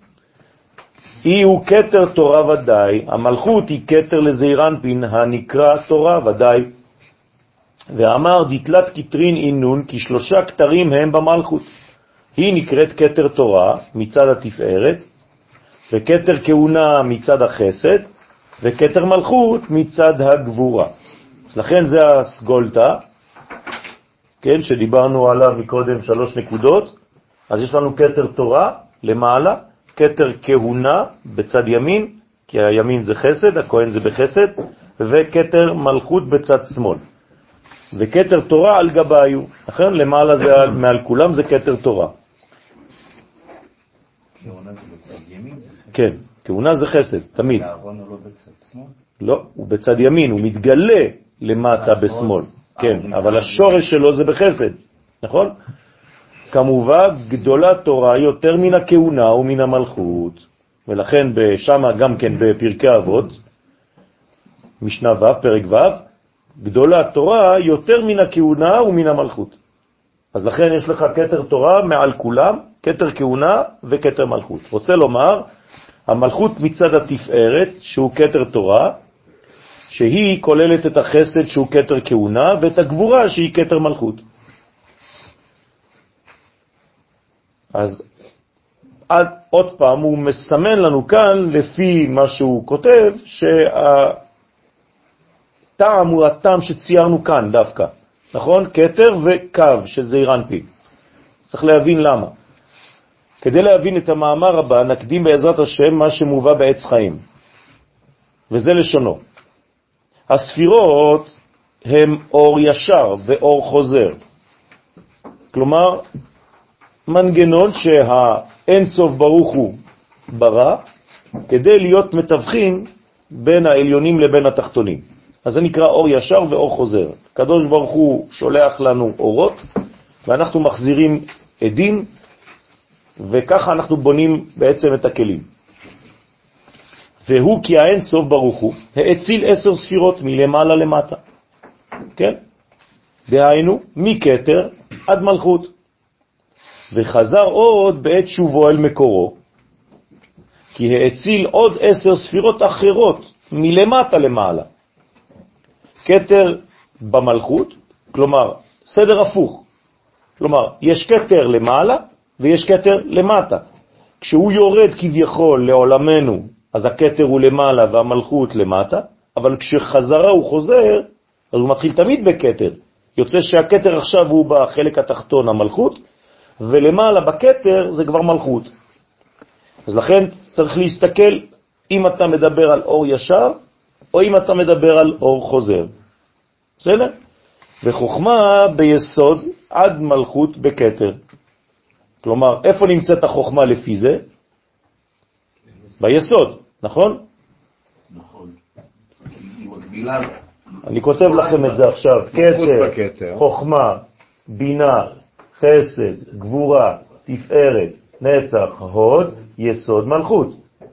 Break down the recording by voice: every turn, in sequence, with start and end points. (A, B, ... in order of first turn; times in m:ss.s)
0:01.2-0:06.7 A
0:07.9-0:11.7 A
0:12.4-0:15.0 A
0:15.9-0:18.0 A
0:18.6-0:20.9 A
0:21.5-0:23.0 A
0:24.4-0:26.9 A
0:27.5-0:37.0 A
0:37.9-0:42.1 A
0:44.4-0:45.9 B
0:45.9-0:47.7 A
0:47.4-0:48.9 B
0:49.2-0:55.5 A
0:51.8-0:53.8 B
0:56.5-1:03.4 A
1:04.8-1:06.0 A
1:06.6-1:09.6 A
1:10.3-1:15.5 A
1:16.1-1:19.0 A
1:19.9-1:24.2 A
1:27.7-1:28.0 A
1:29.1-1:34.2 A
1:35.8-1:40.7 A
1:41.5-1:42.3 A
1:43.4-1:47.2 A
1:48.5-1:49.2 A
1:50.3-1:51.3 A
1:51.8-1:54.2 A
1:55.5-1:56.0 A
1:57.1-1:59.8 A
2:00.3-2:00.8 A
2:01.5-2:09.6 A
2:10.3-2:12.1 A
2:13.2-2:15.5 A
2:17.3-2:21.2 A
2:23.3-2:25.7 A
2:26.9-2:29.4 A
2:30.8-2:34.7 A
2:36.0-2:39.6 A
2:40.4-2:43.6 A
2:44.2-2:56.0 A
2:56.6-2:58.7 A
2:59.9-3:03.6 A
3:04.1-3:05.9 A
3:06.8-3:07.1 A
3:07.8-3:11.2 A
3:12.2-3:14.2 A
3:16.0-3:17.2 A
3:18.1-3:18.6 C
3:19.3-3:20.4 C
3:20.8-3:30.6 A
3:21.2-3:23.4 C